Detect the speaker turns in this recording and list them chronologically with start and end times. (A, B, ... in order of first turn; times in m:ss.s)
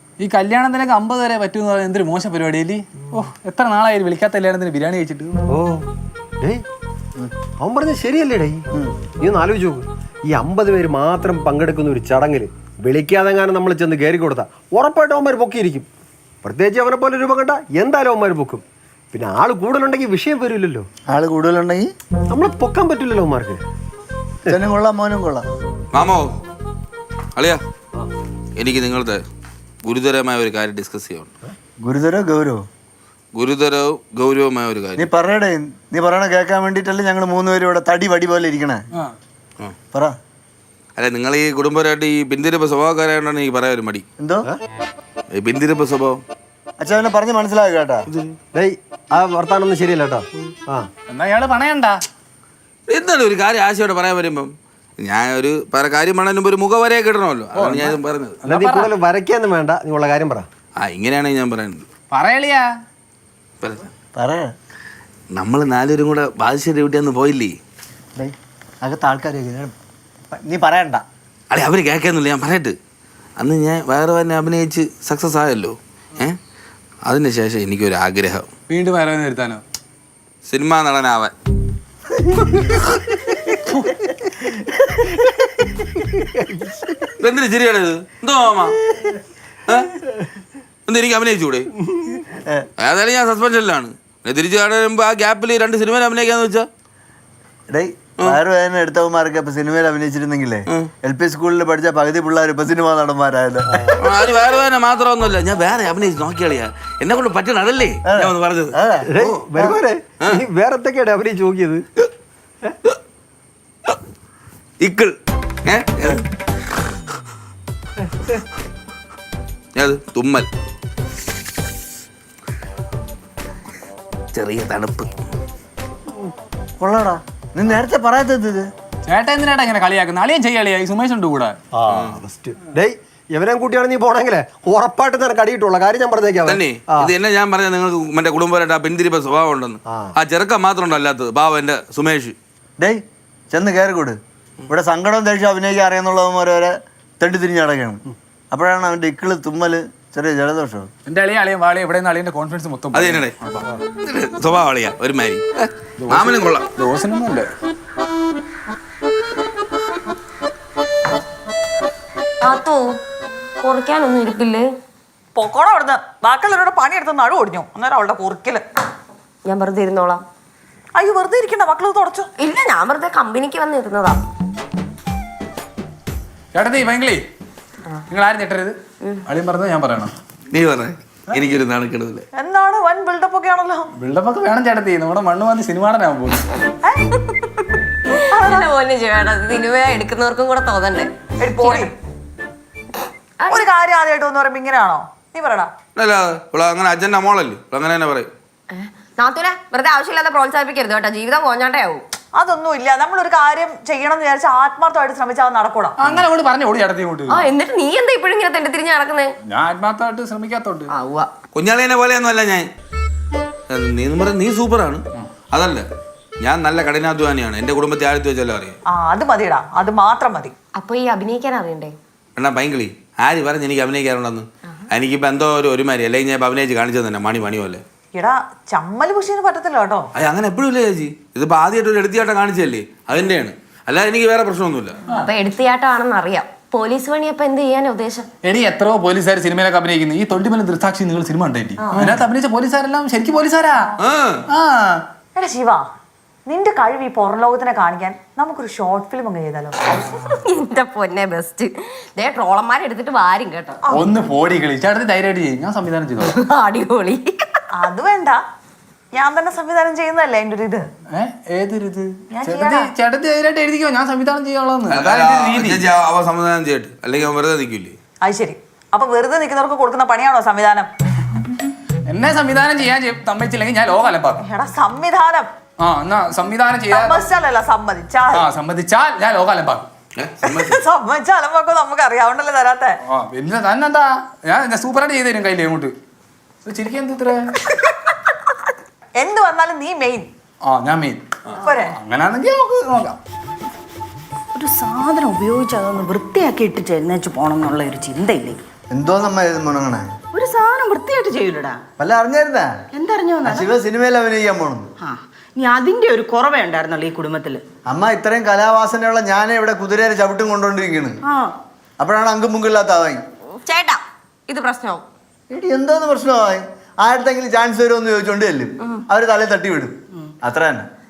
0:00.2-0:05.4 A
0:05.5-0:05.8 B
0:07.6-0:08.7 B
0:09.2-0:15.9 B
0:16.4-0:20.9 B
0:21.1-0:21.9 C
0:22.3-0:23.6 B
0:24.5-0:25.4 C
0:25.9-0:26.3 D
0:28.6-0:29.2 D
0:29.8-0:31.3 D
0:31.8-0:32.6 C
0:33.4-0:35.1 D
0:35.0-0:38.8 C
0:39.9-0:40.2 C
0:41.0-0:44.0 D
0:44.2-0:44.5 C
0:45.3-0:46.2 D
0:46.8-0:48.1 C
0:48.1-0:48.3 D
0:48.5-0:50.9 B
0:51.1-0:52.0 A
0:52.9-0:58.4 D
0:57.6-0:58.9 A
0:58.4-1:00.5 B
1:00.8-1:01.8 D
1:02.1-1:02.7 A
1:03.6-1:03.9 D
1:04.2-1:04.5 C
1:05.3-1:07.6 D
1:08.2-1:09.7 C
1:10.3-1:11.0 C
1:11.5-1:12.8 D
1:13.4-1:16.4 D
1:17.1-1:18.5 D
1:18.7-1:19.6 A
1:20.5-1:21.3 D
1:23.7-1:23.9 A
1:27.2-1:28.8 D
1:30.9-1:31.7 D
1:32.8-1:36.7 D
1:37.7-1:44.1 C
1:44.0-1:49.4 D
1:48.1-1:49.1 C
1:49.1-1:51.8 B
1:54.8-1:55.1 D
1:55.6-1:56.2 D
1:59.8-2:00.5 D
2:04.3-2:05.1 D
2:06.8-2:08.7 C
2:09.1-2:11.6 A
2:11.7-2:17.1 B
2:11.9-2:12.2 D
2:16.5-2:22.4 D
2:22.8-2:24.2 C
2:24.7-2:30.9 C
2:31.1-2:33.7 A
2:32.9-2:33.3 D
2:34.0-2:36.6 D
2:36.0-2:37.5 A
2:42.4-2:43.0 E
2:43.6-2:44.7 E
2:45.4-2:48.6 F
2:49.5-2:50.2 E
2:51.0-2:52.3 F
2:52.4-2:54.2 E
2:56.5-2:57.2 A
2:58.1-2:58.8 A
2:59.3-3:00.1 A
3:00.5-3:02.3 D
3:02.4-3:03.9 F
3:04.0-3:06.4 A
3:07.2-3:07.5 E
3:08.1-3:11.9 E
3:11.4-3:11.9 F
3:13.5-3:15.7 F
3:16.0-3:18.3 D
3:18.7-3:22.0 E
3:22.4-3:26.0 F
3:26.0-3:27.4 A
3:27.3-3:29.4 E
3:29.5-3:30.9 A
3:30.9-3:31.3 E
3:31.6-3:32.7 D
3:33.7-3:35.8 D
3:36.4-3:38.8 D
3:38.9-3:40.5 F
3:40.8-3:42.0 E
3:42.4-3:47.8 D
3:48.2-3:50.1 F
3:50.2-3:55.0 D
3:55.2-3:58.3 E
3:58.4-4:03.9 A
4:01.8-4:02.2 E
4:04.0-4:04.4 D
4:04.5-4:05.0 A
4:05.4-4:05.8 F
4:06.5-4:09.8 F
4:10.0-4:13.8 E
4:13.9-4:16.4 A
4:16.2-4:17.6 E
4:17.8-4:18.4 F
4:19.2-4:20.9 F
4:21.1-4:25.8 A
4:22.3-4:22.9 F
4:24.9-4:28.0 D
4:28.2-4:30.9 F
4:32.1-4:34.4 A
4:34.4-4:35.5 F
4:35.8-4:37.2 A
4:36.9-4:38.5 F
4:38.3-4:39.9 A
4:40.2-4:40.8 D
4:40.5-4:43.0 F
4:43.1-4:45.9 A
4:46.6-4:47.6 A
4:49.2-4:50.3 F
4:50.7-4:51.2 A
4:51.6-4:52.0 F
4:51.9-4:53.2 A
4:54.5-4:58.6 G
4:58.9-5:00.1 C
5:00.3-5:01.8 G
5:02.0-5:02.7 C
5:02.9-5:03.7 G
5:03.4-5:04.9 C
5:05.0-5:07.6 G
5:07.9-5:11.2 C
5:11.2-5:11.5 G
5:12.0-5:13.2 C
5:13.6-5:15.0 E
5:15.5-5:20.9 C